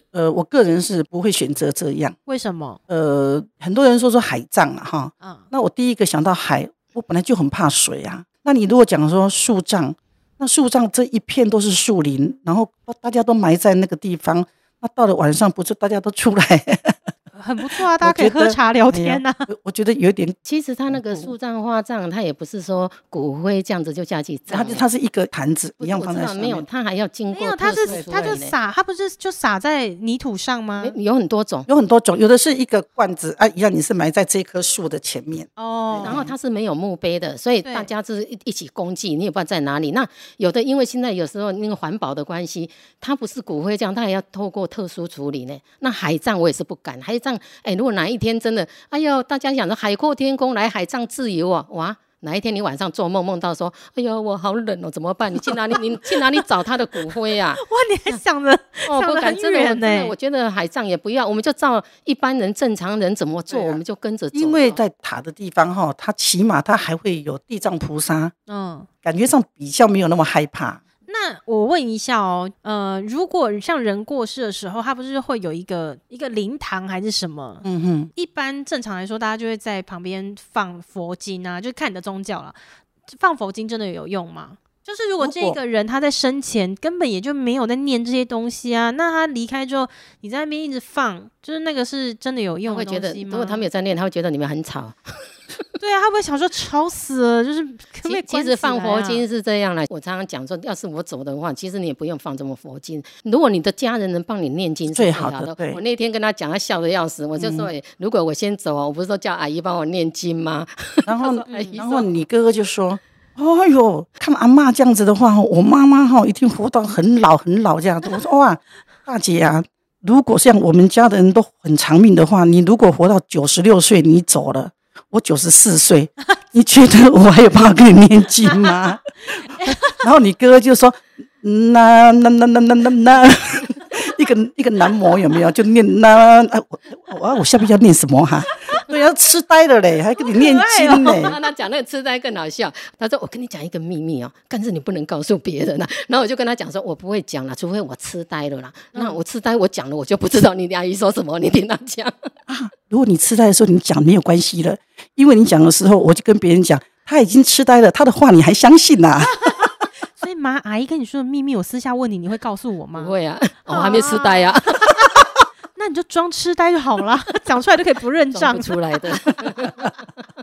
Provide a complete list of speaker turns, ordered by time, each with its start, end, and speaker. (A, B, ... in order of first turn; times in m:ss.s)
0:00.1-0:02.2 A
0:02.2-0:02.8 B
0:02.9-0:17.0 A
0:05.2-0:05.5 B
0:17.3-0:19.5 B
0:17.7-0:20.4 A
0:20.4-0:24.8 C
0:20.9-0:21.3 A
0:24.5-0:26.7 A
0:25.8-0:28.5 C
0:27.3-0:30.9 B
0:27.9-0:28.4 A
0:30.8-0:31.7 C
0:31.7-0:36.3 A
0:35.6-0:36.2 B
0:36.0-0:58.2 C
0:37.6-0:37.9 B
0:57.5-1:00.1 B
0:58.8-1:04.8 C
1:03.5-1:03.8 A
1:04.3-1:08.3 A
1:08.5-1:08.9 B
1:09.0-1:10.8 A
1:11.1-1:22.6 B
1:17.6-1:18.1 A
1:23.1-1:33.6 B
1:25.2-1:25.6 A
1:32.6-1:35.3 C
1:35.8-1:39.2 B
1:38.0-1:52.0 C
1:44.9-1:45.8 A
1:47.4-1:47.7 A
1:51.0-2:21.3 A
1:51.2-1:52.0 B
2:09.6-2:10.0 B
2:20.2-2:21.4 B
2:21.2-2:32.3 C
2:28.9-2:29.2 B
2:32.5-2:39.4 A
2:40.1-2:43.1 B
2:42.9-2:45.0 C
2:43.7-2:45.0 B
2:45.8-2:49.0 B
2:48.3-2:49.9 C